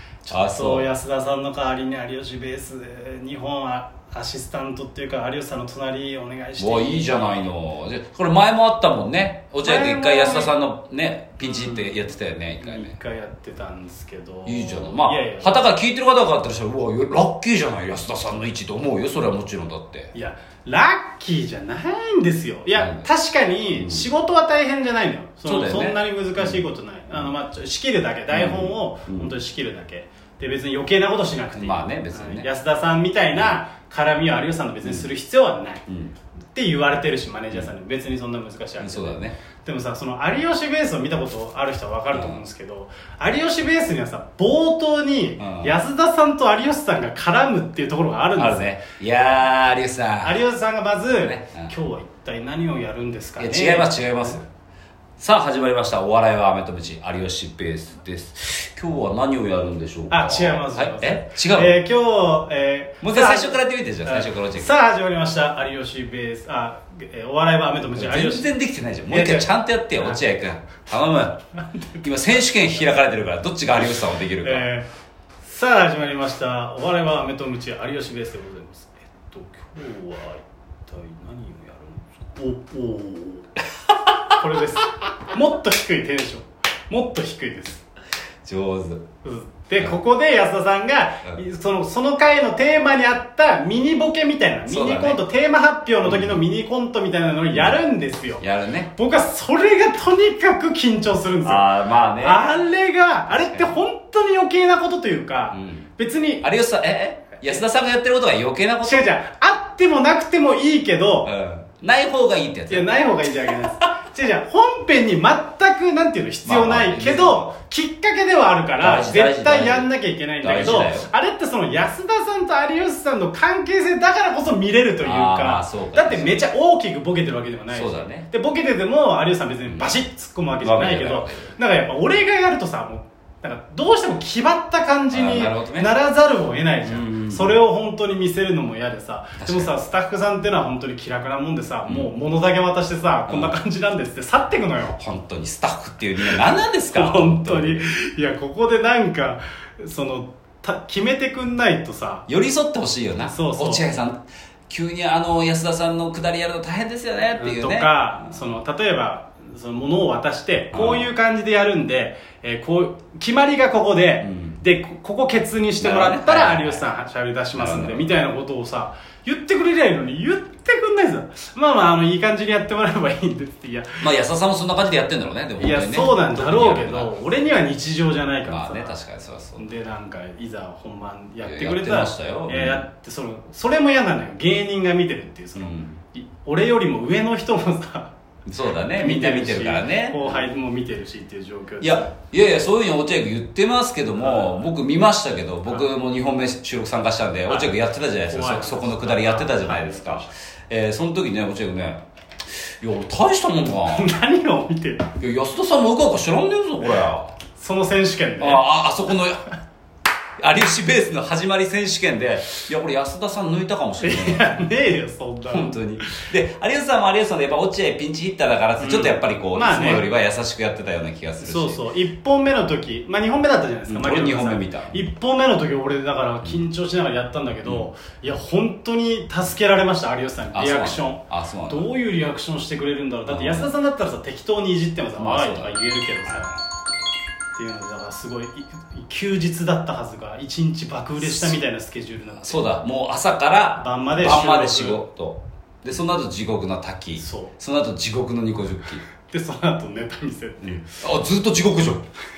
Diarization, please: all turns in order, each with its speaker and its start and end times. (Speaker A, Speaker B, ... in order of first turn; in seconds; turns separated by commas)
Speaker A: 0.2-7.5, Speaker B: 0.3-0.9, Speaker B: 6.6-12.9, Speaker A: 9.6-10.5, Speaker A: 11.4-15.6, Speaker B: 14.4-20.1, Speaker A: 20.1-35.8, Speaker B: 22.7-23.1, Speaker B: 23.7-24.1, Speaker B: 25.4-26.6, Speaker B: 28.3-29.3, Speaker B: 31.5-32.5, Speaker B: 34.8-35.1, Speaker B: 35.9-36.1, Speaker A: 36.5-48.7, Speaker B: 38.8-39.4, Speaker B: 42.1-42.4, Speaker B: 45.4-45.8, Speaker B: 48.4-50.4, Speaker A: 50.2-54.4, Speaker B: 51.2-51.7, Speaker B: 53.4-54.4, Speaker B: 55.2-61.8, Speaker A: 60.1-68.5, Speaker B: 63.0-64.7, Speaker B: 67.9-74.7, Speaker A: 69.1-70.2, Speaker A: 71.7-72.0, Speaker A: 73.8-74.9, Speaker A: 75.4-83.5, Speaker A: 84.3-87.8, Speaker B: 88.4-89.0, Speaker A: 89.2-106.5, Speaker B: 94.7-95.2, Speaker B: 96.0-96.4, Speaker B: 97.5-97.8, Speaker B: 98.4-98.9, Speaker B: 101.4-102.5, Speaker B: 103.3-103.8, Speaker B: 105.5-105.9, Speaker B: 106.4-109.1, Speaker A: 108.8-111.3, Speaker B: 111.2-112.9, Speaker A: 112.7-145.0, Speaker B: 116.4-117.5, Speaker B: 118.8-119.9, Speaker B: 120.4-121.1, Speaker B: 125.0-126.4, Speaker B: 127.7-128.3, Speaker B: 130.6-131.5, Speaker B: 135.1-135.9, Speaker B: 136.8-137.6, Speaker B: 139.4-139.7, Speaker B: 143.3-143.5, Speaker B: 145.0-147.8, Speaker A: 146.2-152.3, Speaker B: 152.3-158.4, Speaker A: 153.2-153.8, Speaker A: 157.3-174.1, Speaker B: 160.7-161.1, Speaker B: 164.2-164.6, Speaker B: 165.8-166.8, Speaker B: 167.6-168.1, Speaker B: 174.0-177.1, Speaker A: 175.6-179.0, Speaker B: 178.4-179.7, Speaker A: 179.6-188.1, Speaker B: 181.4-182.8, Speaker B: 185.6-186.0, Speaker B: 188.4-190.4, Speaker A: 188.9-192.1, Speaker B: 191.8-204.1, Speaker A: 194.2-194.7, Speaker A: 197.5-197.7, Speaker A: 198.3-200.3, Speaker A: 203.9-205.1, Speaker B: 205.2-207.3, Speaker A: 207.5-208.8, Speaker B: 208.4-209.5, Speaker B: 210.4-214.6, Speaker A: 214.0-216.3, Speaker B: 215.5-221.8, Speaker A: 218.8-220.1, Speaker A: 221.4-236.6, Speaker B: 223.9-225.0, Speaker B: 230.5-231.9, Speaker B: 233.3-233.7, Speaker B: 235.2-236.4, Speaker A: 237.5-242.7, Speaker B: 241.2-241.6, Speaker B: 242.3-249.0, Speaker A: 243.8-245.0, Speaker A: 247.2-247.5, Speaker A: 249.3-250.9, Speaker B: 250.6-252.1